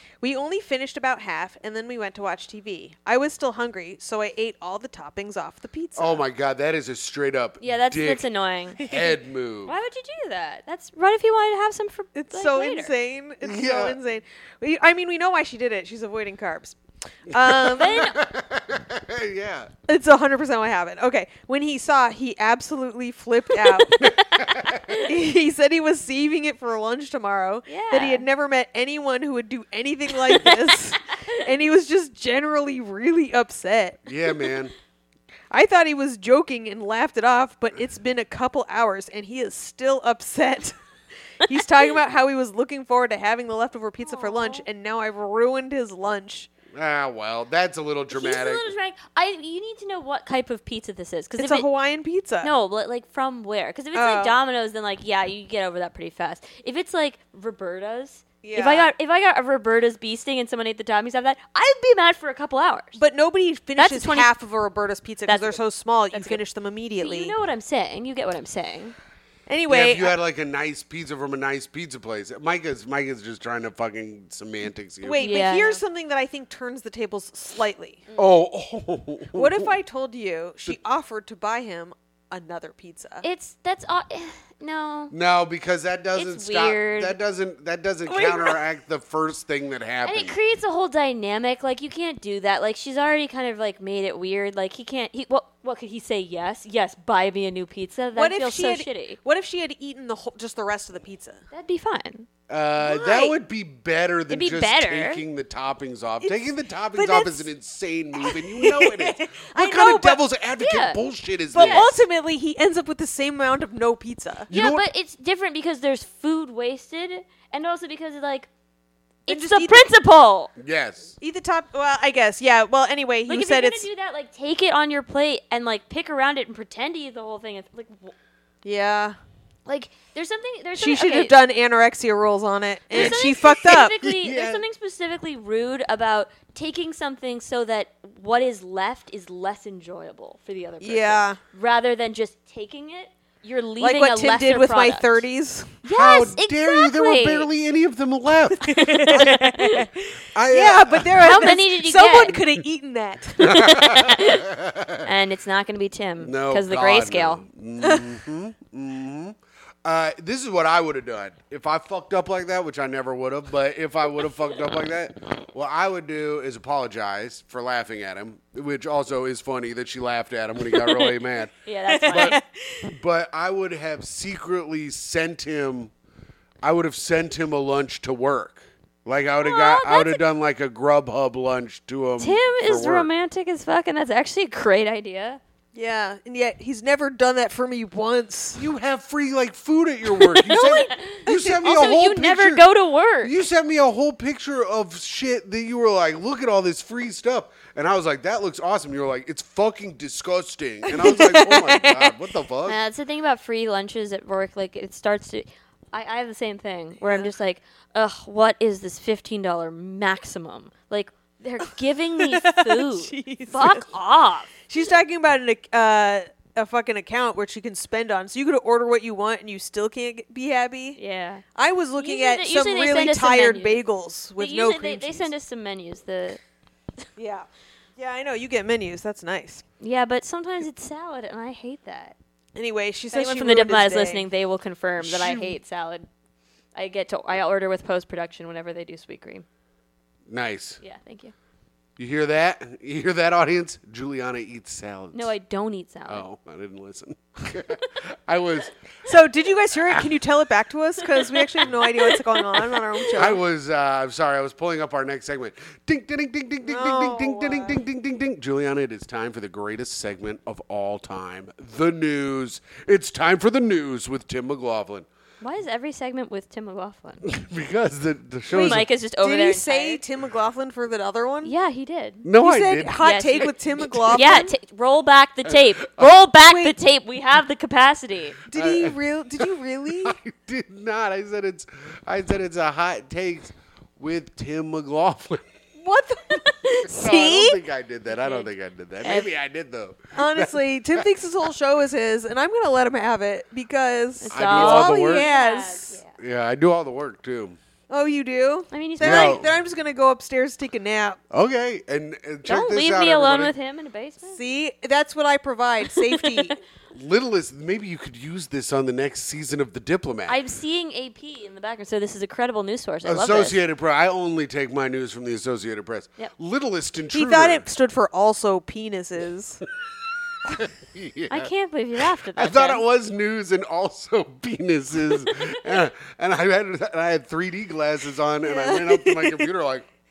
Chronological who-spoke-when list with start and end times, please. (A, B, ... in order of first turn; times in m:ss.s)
0:00.2-0:06.2 A
0:06.0-0:08.2 B
0:07.6-0:09.0 C
0:08.8-0:09.8 B
0:09.6-0:12.9 C
0:12.2-0:18.0 A
0:13.4-0:14.0 B
0:17.4-0:19.7 B
0:17.7-0:18.2 C
0:19.9-0:24.0 A
0:23.7-0:25.1 C
0:24.0-0:24.9 B
0:24.9-0:34.0 A
0:27.7-0:28.2 C
0:30.2-0:30.8 C
0:34.0-0:34.7 B
0:35.5-0:40.8 A
0:41.4-0:46.5 A
0:44.0-0:44.6 C
0:46.7-0:48.7 B
0:48.1-0:51.6 C
0:51.4-0:52.5 A
0:52.4-1:03.0 C
0:53.9-0:54.3 A
0:58.4-0:58.9 A
1:02.9-1:07.3 A
1:03.8-1:04.3 C
1:05.3-1:05.6 C
1:06.1-1:06.4 C
1:07.0-1:09.0 C
1:09.5-1:10.1 A
1:09.7-1:15.2 B
1:15.0-1:18.0 A
1:15.2-1:15.8 C
1:18.1-1:19.7 B
1:19.3-1:23.2 A
1:23.2-1:25.1 C
1:25.1-1:30.4 B
1:26.2-1:27.1 C
1:28.1-1:28.6 A
1:30.0-1:39.2 C
1:38.2-1:41.4 A
1:41.5-1:42.3 C
1:42.5-1:51.9 B
1:42.8-1:43.3 A
1:44.3-1:45.2 C
1:46.2-1:47.5 A
1:48.1-1:50.2 A
1:50.6-1:51.0 C
1:51.5-1:54.5 A
1:51.6-1:51.9 C
1:54.5-1:54.8 B
1:54.5-1:58.5 C
1:59.3-2:00.5 C
1:59.3-1:59.8 A
2:00.6-2:01.2 B
2:01.2-2:03.9 A
2:03.3-2:08.1 C
2:08.6-2:09.2 A
2:09.6-2:11.3 C
2:10.8-2:13.9 A
2:12.9-2:25.2 C
2:12.9-2:14.6 B
2:20.8-2:21.4 A
2:23.8-2:25.8 A
2:25.8-2:27.5 C
2:25.9-2:28.7 B
2:28.6-2:33.6 A
2:28.7-2:29.9 C
2:30.3-2:31.3 B
2:31.2-2:32.4 C
2:33.4-2:35.0 B
2:33.4-2:34.5 C
2:35.0-2:37.4 C
2:36.2-2:51.5 B
2:37.8-2:38.2 A
2:50.8-2:51.1 C
2:51.6-2:52.4 C
2:51.9-2:52.8 A
2:52.1-2:55.9 B
2:56.6-3:03.1 B
2:59.4-3:00.2 C
3:02.2-3:05.4 C
3:05.7-3:08.6 A
3:08.6-3:12.6 B
3:10.2-3:13.3 C
3:13.2-3:22.8 B
3:20.9-3:22.1 A
3:22.6-3:34.5 C
3:32.2-3:33.9 A
3:34.7-3:41.0 A
3:41.0-3:41.4 C
3:41.5-3:45.3 A
3:42.0-3:43.8 C
3:44.4-3:46.4 C
3:47.2-3:49.6 A
3:49.8-3:52.1 C
3:52.5-3:54.2 A
3:53.1-3:56.1 C
3:55.0-3:55.5 B
3:56.7-3:59.4 C
4:00.3-4:00.8 B
4:00.8-4:01.3 C
4:02.0-4:05.3 B
4:05.1-4:06.2 C
4:06.1-4:08.7 B
4:09.0-4:13.4 A
4:11.1-4:12.7 C
4:13.1-4:25.1 B
4:16.6-4:17.8 A
4:25.4-4:27.2 C
4:27.2-4:28.9 B
4:28.5-4:30.0 C
4:28.5-4:31.5 A
4:31.4-4:32.2 C
4:32.2-4:34.2 B
4:32.4-4:34.5 A
4:33.0-4:38.4 C
4:36.4-4:36.8 A
4:38.5-4:40.2 A
4:38.5-4:39.0 B
4:40.0-4:45.4 B
4:45.8-4:47.5 A
4:46.4-4:47.1 C
4:46.9-4:51.0 B
4:48.1-4:48.5 C
4:49.0-4:49.3 C
4:50.1-4:56.0 A
4:54.2-4:56.2 C
4:54.3-4:55.3 B
4:56.2-4:57.6 B
4:57.9-5:01.2 A
4:58.7-4:59.4 C
4:59.0-4:59.5 B
5:01.3-5:03.5 B
5:02.5-5:04.4 C
5:04.2-5:06.6 A
5:05.9-5:06.5 C
5:06.9-5:10.4 B
5:10.3-5:13.6 C
5:13.0-5:17.7 B
5:17.1-5:19.6 A
5:20.5-5:21.5 B
5:21.3-5:22.8 C
5:22.3-5:29.9 B
5:28.4-5:29.5 A